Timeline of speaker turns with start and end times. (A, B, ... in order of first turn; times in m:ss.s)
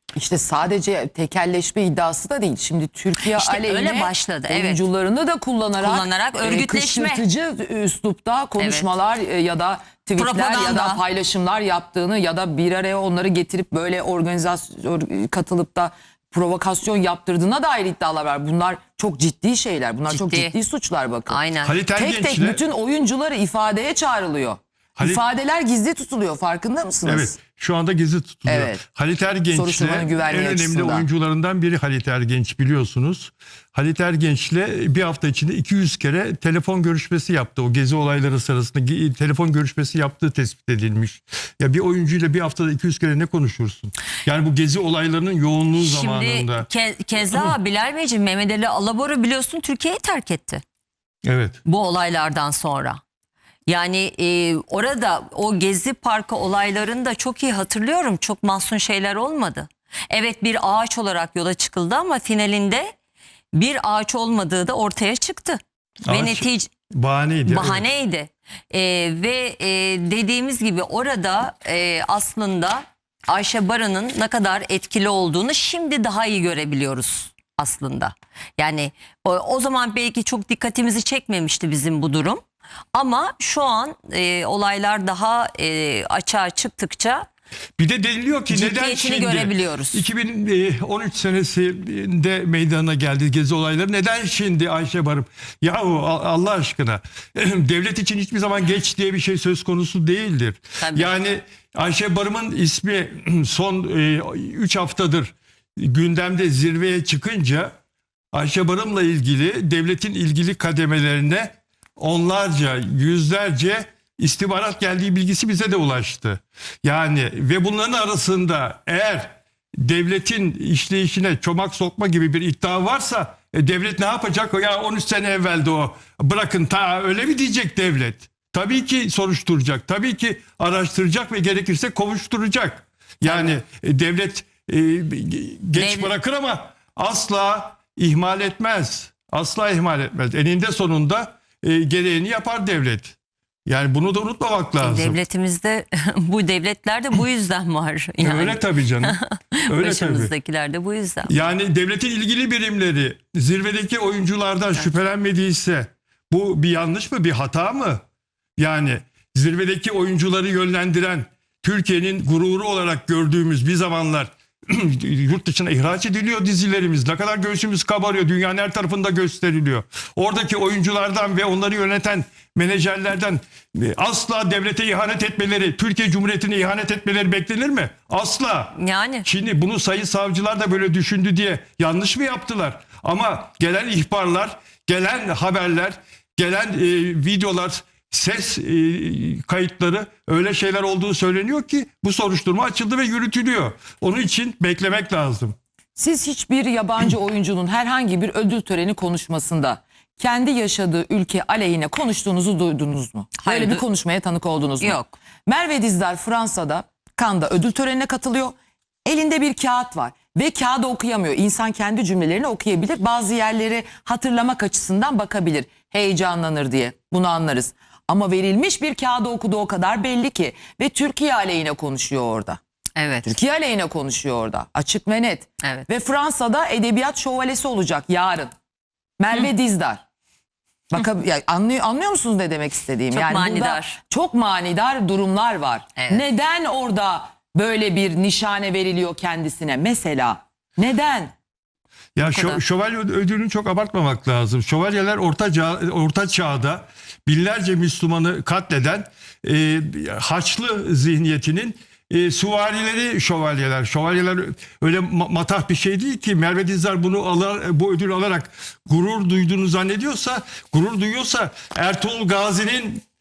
0:00.1-0:21.4 A
0:03.2-0:04.8 B
0:05.8-0:07.2 B
0:08.6-0:09.0 B
0:10.2-0:11.0 B
0:20.1-0:20.6 B
0:21.3-0:21.8 B
0:21.6-0:22.6 C
0:21.9-0:27.4 A
0:25.0-0:25.2 C
0:27.0-0:46.7 C
0:28.5-0:28.8 A
0:29.5-0:31.1 A
0:45.8-0:50.6 B
0:51.2-0:51.6 C
0:51.6-0:53.0 B
0:53.7-1:02.9 B
1:03.5-1:06.7 B
1:06.1-1:07.8 C
1:07.5-1:22.4 B
1:22.9-1:27.3 B
1:27.8-1:47.7 C
1:28.5-1:30.0 B
1:40.8-1:41.1 B
1:48.3-2:25.2 C
2:13.2-2:13.6 B
2:15.8-2:16.1 B
2:24.8-2:31.3 B
2:28.2-2:30.3 C
2:31.3-2:38.0 C
2:38.6-3:15.6 C
2:58.8-2:59.2 B
3:16.0-3:28.6 A
3:23.4-3:23.8 B
3:24.8-3:25.1 B
3:29.1-3:42.6 A
3:43.0-3:43.3 B
3:43.2-3:48.5 A
3:49.2-3:50.0 A
3:50.9-4:01.3 A
3:53.1-3:54.0 B
3:56.0-3:56.2 B
4:02.2-4:23.0 C
4:02.2-4:02.6 B